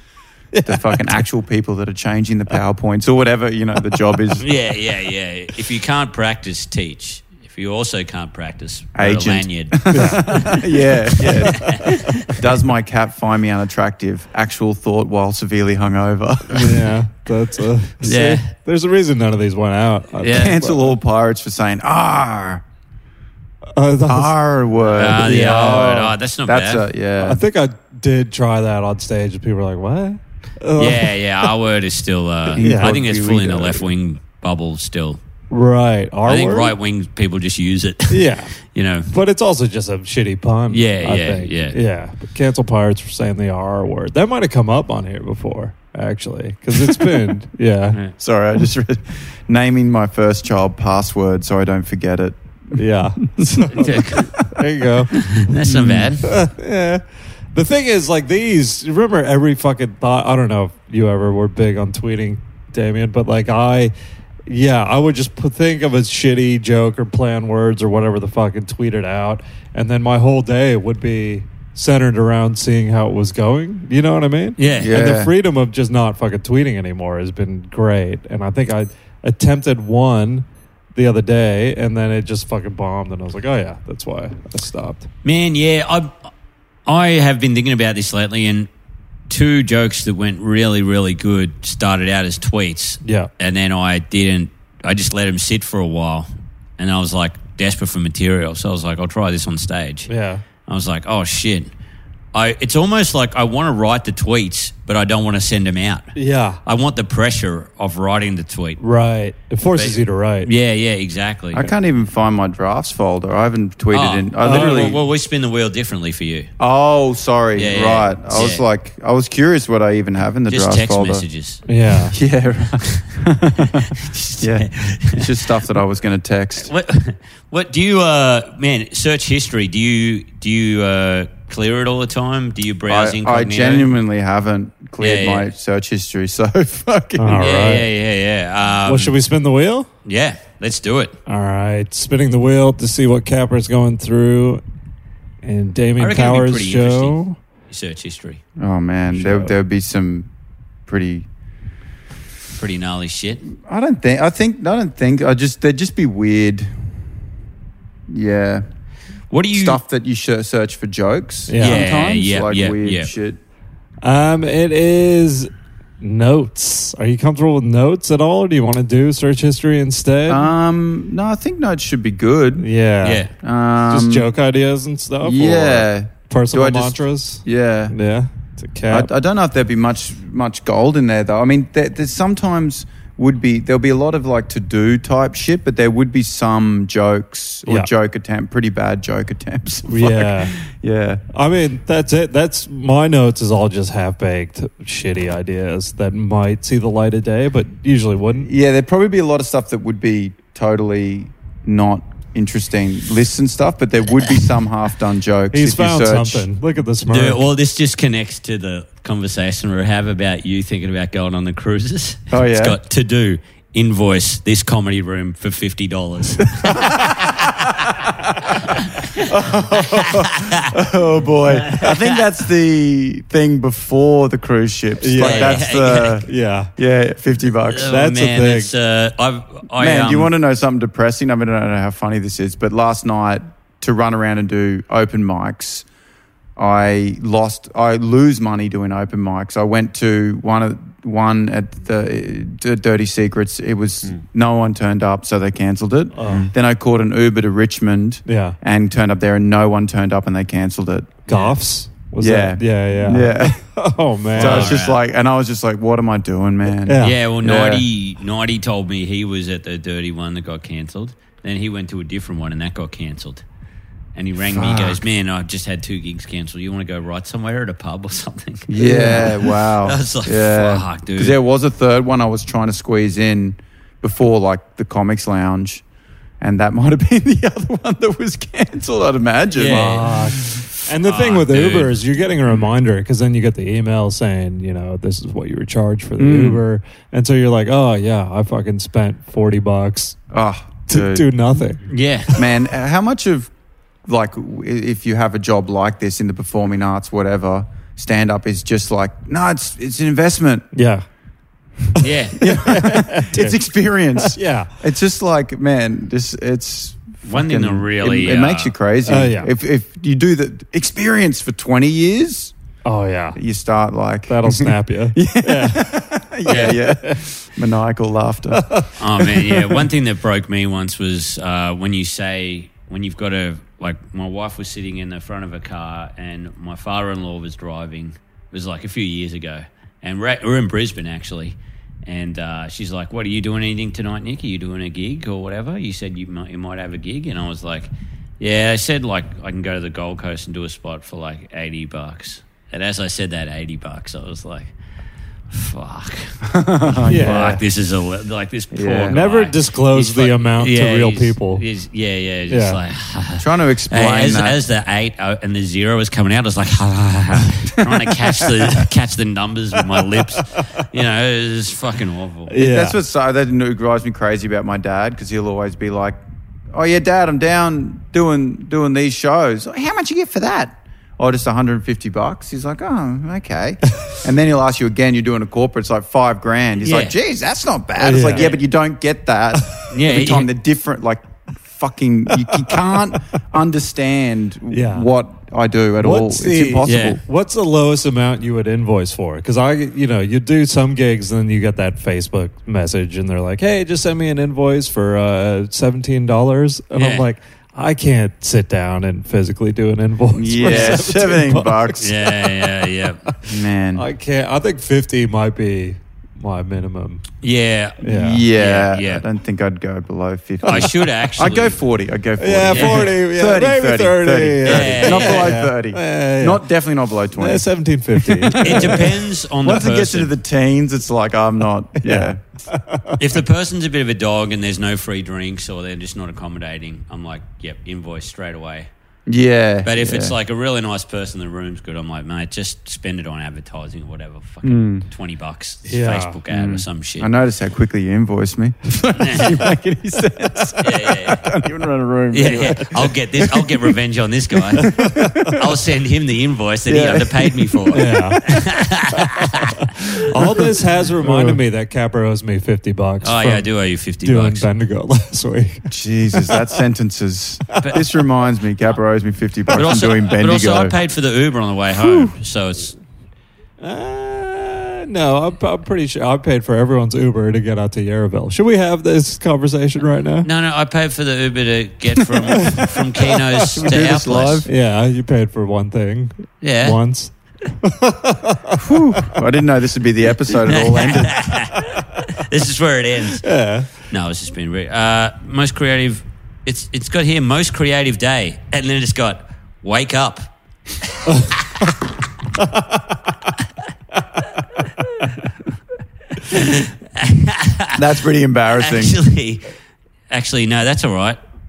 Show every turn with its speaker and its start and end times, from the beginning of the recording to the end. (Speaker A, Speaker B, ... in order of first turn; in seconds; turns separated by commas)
Speaker A: 0.5-1.2, Speaker B: 0.6-4.5, Speaker C: 4.4-12.4, Speaker B: 8.9-16.9, Speaker A: 9.9-10.6, Speaker A: 16.5-20.9, Speaker C: 18.0-18.5, Speaker C: 20.2-20.5, Speaker B: 20.3-22.6, Speaker A: 23.8-24.4, Speaker B: 24.1-27.4, Speaker C: 24.9-26.8, Speaker A: 25.1-25.9, Speaker A: 27.2-31.1, Speaker C: 30.8-35.2, Speaker B: 32.5-33.9, Speaker A: 32.6-33.0, Speaker A: 35.5-36.7, Speaker C: 36.2-39.1, Speaker A: 38.1-38.5, Speaker A: 39.1-48.0, Speaker C: 40.7-41.8, Speaker B: 48.2-54.6, Speaker A: 52.7-55.2, Speaker C: 53.7-54.3, Speaker C: 55.1-56.3, Speaker B: 55.6-56.1, Speaker A: 55.7-57.0, Speaker A: 57.5-63.9, Speaker A: 64.5-85.1, Speaker C: 74.6-75.0, Speaker B: 74.8-75.3, Speaker C: 85.2-86.1, Speaker C: 86.8-88.7, Speaker C: 89.3-100.1, Speaker A: 93.0-93.3, Speaker A: 100.1-100.4, Speaker C: 100.7-101.7, Speaker C: 102.3-108.8, Speaker A: 106.1-106.6, Speaker A: 108.8-110.5, Speaker C: 109.7-111.7, Speaker B: 111.5-115.0, Speaker C: 113.9-116.5, Speaker A: 114.4-115.0, Speaker B: 116.6-121.2, Speaker C: 117.5-118.6, Speaker C: 120.5-121.6, Speaker A: 121.7-122.2, Speaker B: 122.1-126.7, Speaker C: 123.8-125.3, Speaker C: 126.6-133.9, Speaker B: 132.9-137.4, Speaker C: 135.0-135.5, Speaker A: 137.2-137.9, Speaker C: 137.3-139.2, Speaker A: 138.8-139.9, Speaker C: 140.0-141.2, Speaker A: 141.3-144.6, Speaker A: 145.4-147.4, Speaker C: 146.0-147.2, Speaker C: 147.7-148.4, Speaker B: 148.6-150.3, Speaker A: 149.1-149.5, Speaker B: 150.9-151.3, Speaker C: 152.5-153.5, Speaker B: 153.5-157.0, Speaker B: 158.1-158.6, Speaker C: 159.3-159.8, Speaker B: 159.5-163.4, Speaker A: 161.5-162.0, Speaker C: 161.6-163.1, Speaker A: 164.0-170.5, Speaker B: 170.3-172.7, Speaker A: 172.6-173.3, Speaker C: 173.0-173.3, Speaker B: 173.4-174.3, Speaker A: 173.9-179.1, Speaker B: 175.2-177.9, Speaker B: 178.9-191.2, Speaker A: 189.9-190.5, Speaker A: 191.3-198.5, Speaker B: 198.4-206.5, Speaker A: 205.5-207.4, Speaker C: 207.1-217.9, Speaker B: 212.3-212.8, Speaker C: 218.5-220.7, Speaker B: 219.2-228.0, Speaker C: 221.6-222.2, Speaker A: 225.0-226.7, Speaker C: 225.2-226.2, Speaker C: 227.6-230.3, Speaker A: 227.9-228.7, Speaker B: 229.8-235.8, Speaker B: 236.6-251.2, Speaker A: 246.1-246.5, Speaker A: 248.3-248.6, Speaker C: 251.3-251.5, Speaker A: 251.3-254.8, Speaker B: 252.2-253.6, Speaker C: 254.3-255.0, Speaker B: 254.4-257.9, Speaker A: 256.8-257.1, Speaker C: 257.0-263.4, Speaker C: 264.1-271.4, Speaker B: 264.4-265.0, Speaker B: 268.7-275.8, Speaker A: 268.8-269.2, Speaker B: 276.4-280.1, Speaker C: 279.5-280.4, Speaker A: 279.7-290.2, Speaker C: 281.0-282.0, Speaker B: 286.2-286.6, Speaker B: 290.3-291.6, Speaker A: 290.9-291.8, Speaker C: 291.9-292.4, Speaker B: 292.3-293.5, Speaker B: 294.1-300.6, Speaker A: 300.7-301.0, Speaker C: 302.0-302.4, Speaker A: 302.4-303.6, Speaker B: 302.4-312.5, Speaker A: 304.2-304.7, Speaker C: 307.2-308.7, Speaker A: 309.1-309.5, Speaker A: 312.8-313.4, Speaker B: 313.4-318.7, Speaker A: 314.3-317.2, Speaker C: 316.4-316.8, Speaker A: 318.5-318.9, Speaker C: 319.0-344.7, Speaker B: 319.2-319.8, Speaker C: 345.5-362.5, Speaker B: 346.4-347.6, Speaker A: 347.1-347.6, Speaker B: 348.7-349.2, Speaker A: 349.1-351.6, Speaker A: 352.5-352.8, Speaker B: 353.4-354.6, Speaker B: 357.8-358.7, Speaker A: 362.5-362.9, Speaker B: 362.5-366.2, Speaker B: 366.7-387.2, Speaker C: 376.8-377.1, Speaker A: 378.0-378.5, Speaker C: 378.3-378.6, Speaker C: 379.9-380.5, Speaker A: 382.4-383.0, Speaker A: 384.7-385.1, Speaker A: 386.0-402.5, Speaker C: 386.8-387.2, Speaker C: 396.9-397.2, Speaker B: 400.3-402.1, Speaker C: 400.7-401.0, Speaker C: 402.0-403.2, Speaker B: 403.4-404.1, Speaker A: 403.9-407.2, Speaker C: 407.4-409.2, Speaker A: 408.0-408.4, Speaker B: 408.0-422.4, Speaker C: 410.6-411.8, Speaker A: 412.4-416.6, Speaker C: 412.7-413.1, Speaker C: 414.6-415.5, Speaker A: 417.3-419.1, Speaker C: 418.5-420.3, Speaker A: 422.0-423.2, Speaker C: 423.2-428.9, Speaker B: 429.3-430.4, Speaker C: 429.8-437.3, Speaker B: 434.6-435.1, Speaker A: 435.9-436.4, Speaker B: 436.5-443.9, Speaker C: 439.2-439.6, Speaker C: 440.8-441.5, Speaker C: 442.3-445.0, Speaker B: 444.5-445.8, Speaker A: 444.8-445.6, Speaker C: 445.5-449.9, Speaker B: 446.9-448.8, Speaker A: 447.9-448.4, Speaker A: 450.3-453.7, Speaker B: 450.4-450.7, Speaker B: 451.2-451.6, Speaker C: 453.2-454.7, Speaker A: 454.2-456.7, Speaker B: 455.9-460.9, Speaker C: 459.7-462.9, Speaker A: 461.9-462.3, Speaker A: 463.8-470.5, Speaker C: 470.4-474.6, Speaker A: 472.5-473.6, Speaker B: 473.7-474.7, Speaker A: 474.6-479.4, Speaker C: 476.6-477.0, Speaker B: 478.8-481.4, Speaker C: 480.6-483.5, Speaker A: 481.7-482.0, Speaker A: 483.4-483.9, Speaker C: 484.0-490.5, Speaker C: 491.1-491.9, Speaker A: 491.3-491.5, Speaker A: 492.6-493.5, Speaker C: 496.5-498.0, Speaker B: 497.9-499.2, Speaker C: 498.7-499.7, Speaker C: 500.3-501.4